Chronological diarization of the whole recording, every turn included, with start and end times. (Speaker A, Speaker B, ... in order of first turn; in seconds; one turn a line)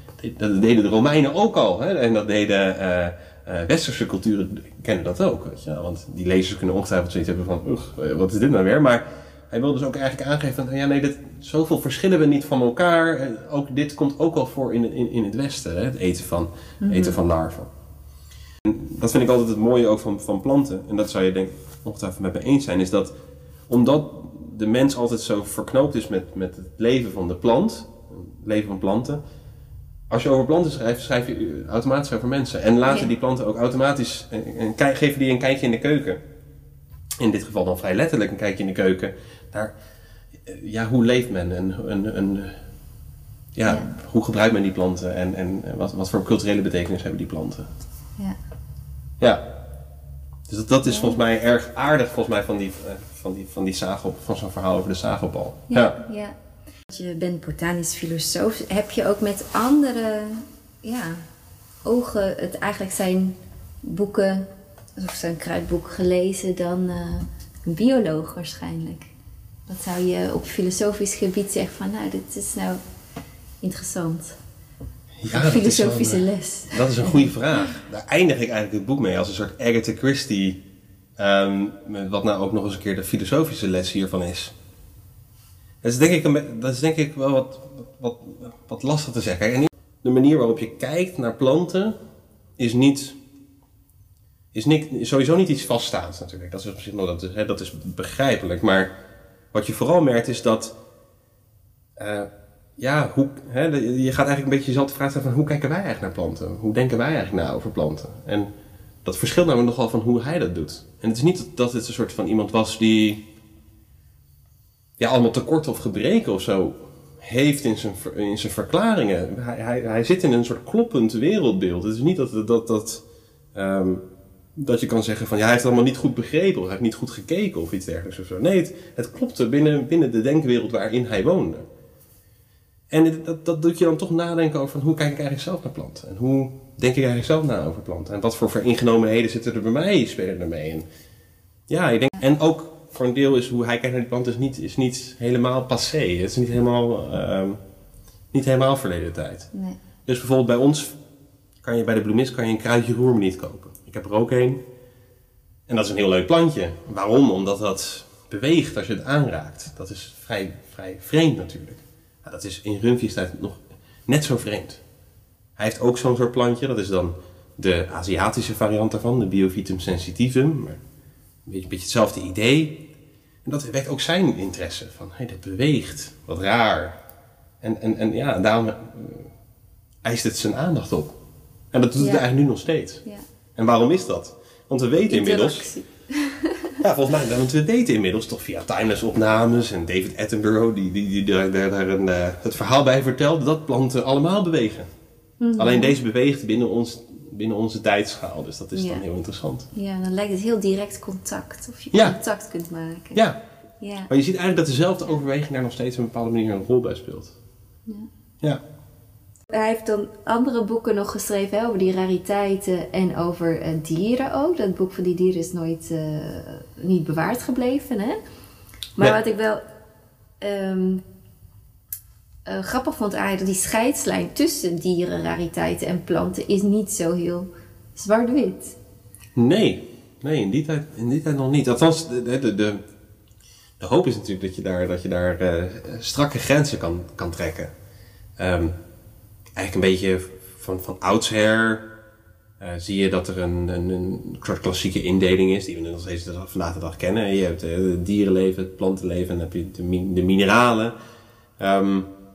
Speaker A: 0.2-17.7
Speaker B: 16.8-17.2
Speaker A: 18.6-23.1
Speaker A: 23.7-29.2
Speaker A: 30.1-36.2
Speaker A: 37.2-39.7
Speaker A: 40.4-42.6
Speaker A: 43.5-47.7
Speaker A: 49.2-49.4
Speaker A: 50.5-56.0
Speaker B: 50.8-51.2
Speaker B: 55.7-56.4
Speaker B: 56.9-61.2
Speaker B: 61.8-69.1
Speaker B: 69.7-72.8
Speaker B: 73.6-74.4
Speaker A: 75.2-80.6
Speaker B: 75.3-77.3
Speaker A: 81.2-84.5
Speaker A: 85.8-92.0
Speaker A: 92.6-93.2
Speaker A: 94.5-98.9
Speaker A: 99.5-100.8
Speaker A: 102.0-108.5
Speaker A: 109.0-113.2
Speaker A: 115.0-124.0
Speaker A: 124.5-131.7
Speaker A: 132.9-140.9
Speaker A: 141.7-147.6
Speaker A: 148.3-149.5
Speaker B: 149.5-149.8
Speaker A: 150.0-151.0
Speaker A: 151.6-154.6
Speaker A: 155.7-164.8
Speaker A: 165.6-170.8
Speaker A: 171.4-172.9
Speaker A: 173.4-177.0
Speaker A: 177.6-179.3
Speaker A: 180.0-181.1
Speaker A: 181.7-183.0
Speaker B: 182.0-182.3
Speaker A: 183.6-185.7
Speaker B: 185.1-186.8
Speaker A: 186.8-194.9
Speaker B: 195.4-195.9
Speaker A: 195.6-199.7
Speaker B: 198.7-199.0
Speaker B: 199.7-203.2
Speaker B: 203.8-204.1
Speaker A: 204.1-207.3
Speaker B: 209.5-218.2
Speaker B: 219.0-219.6
Speaker B: 220.4-221.0
Speaker B: 222.4-228.8
Speaker A: 229.3-232.8
Speaker A: 233.8-237.7
Speaker A: 238.4-238.7
Speaker A: 239.6-241.9
Speaker A: 242.6-250.9
Speaker A: 251.6-252.1